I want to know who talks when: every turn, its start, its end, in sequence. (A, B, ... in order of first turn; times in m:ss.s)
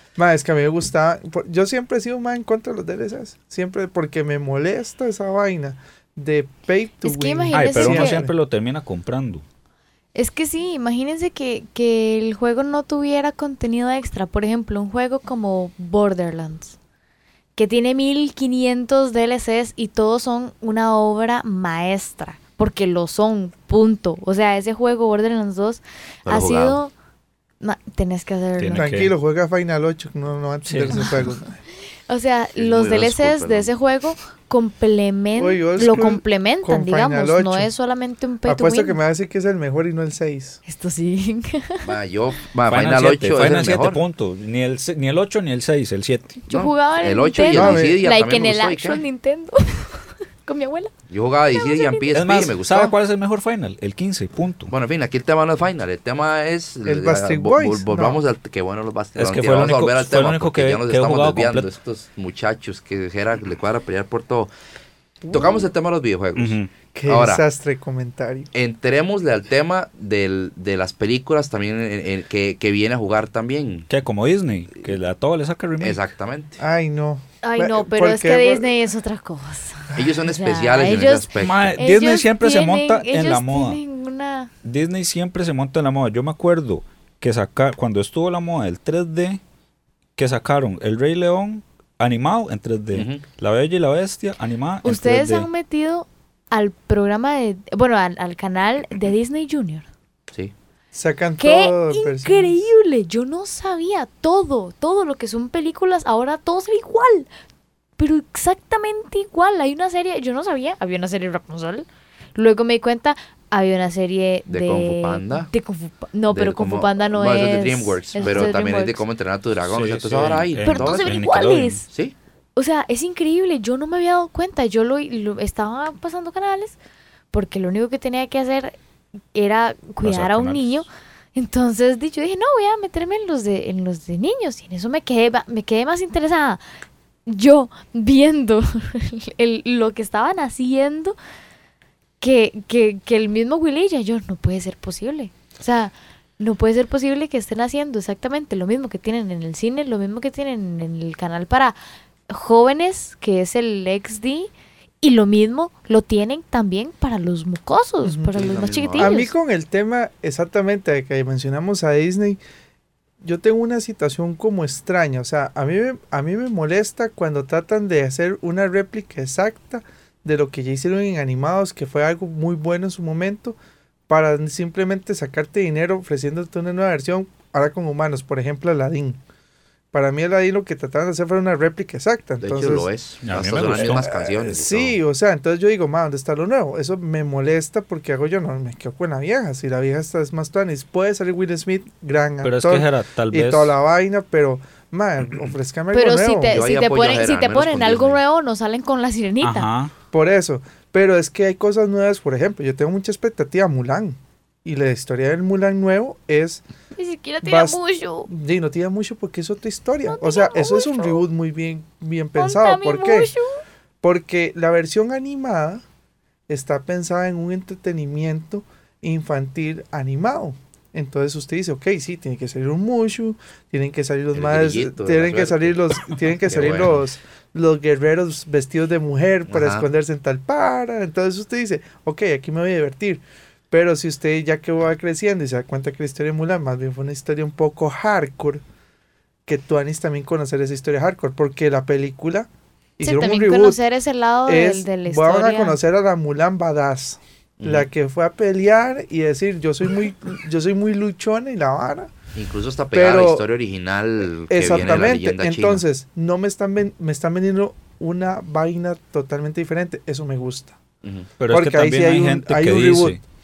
0:00.2-0:08.3 A
0:07.0-0:08.2 B
0:07.5-0:09.4 C
0:10.1-0:16.8 B
0:17.6-0:26.9 B
0:26.2-0:26.8 D
0:27.6-0:28.9 B
0:28.6-0:29.1 C
0:28.8-0:31.6 A
0:30.6-0:31.2 C
0:32.1-0:39.0 B
0:32.6-0:33.7 D
0:35.4-0:37.7 A
0:38.4-0:40.6 A
0:40.6-0:41.8 B
0:41.8-0:44.0 D
0:42.7-0:46.4 C
0:46.5-0:50.9 B
0:46.5-0:49.0 D
0:47.4-0:48.0 A
0:51.1-0:52.9 D
0:51.5-0:52.2 B
0:52.1-0:54.7 C
0:54.7-1:04.5 D
0:56.8-0:58.2 A
0:59.2-1:01.7 C
1:05.2-1:05.7 A
1:05.3-1:07.4 D
1:06.4-1:06.7 C
1:06.9-1:08.5 A
1:08.5-1:13.9 D
1:13.9-1:16.0 C
1:15.8-1:16.6 D
1:16.6-1:18.7 A
1:17.4-1:24.5 B
1:19.9-1:21.8 D
1:21.4-1:23.8 C
1:24.6-1:29.4 C
1:30.2-1:35.5 C
1:32.9-1:33.2 D
1:34.8-1:39.8 B
1:40.9-1:42.6 A
1:41.4-1:47.3 B
1:48.0-1:59.0 B
1:54.5-1:55.5 D
1:56.3-2:01.2 D
1:58.2-1:58.5 C
1:59.7-2:01.8 C
2:00.6-2:01.8 B
2:02.6-2:06.8 B
2:07.3-2:08.7 B
2:09.3-2:16.6 B
2:10.0-2:10.8 C
2:17.3-2:21.2 B
2:22.2-2:31.8 B
2:32.3-2:34.5 B
2:35.0-2:39.3 B
2:38.0-2:38.4 A
2:38.3-2:39.1 D
2:39.0-2:42.4 A
2:43.2-2:53.6 A
2:54.1-2:59.2 A
2:59.9-3:02.9 A
3:02.4-3:05.0 D
3:03.2-3:04.0 C
3:03.7-3:16.6 A
3:12.4-3:13.7 C
3:15.9-3:19.7 B
3:16.5-3:18.2 D
3:19.4-3:19.9 C
3:20.1-3:26.6 A
3:27.0-3:28.3 B
3:27.4-3:33.3 A
3:30.1-3:31.2 B
3:32.4-3:33.6 B
3:34.0-3:35.8 A
3:36.5-3:58.6 A
3:44.3-3:46.9 D
3:49.5-3:49.8 D
3:59.4-4:03.8 A
4:03.0-4:05.8 B
4:04.4-4:12.1 A
4:07.6-4:07.9 D
4:12.4-4:15.8 D
4:12.9-4:13.4 A
4:14.5-4:20.8 A
4:21.0-4:21.3 D
4:21.4-4:23.2 C
4:21.5-4:23.2 A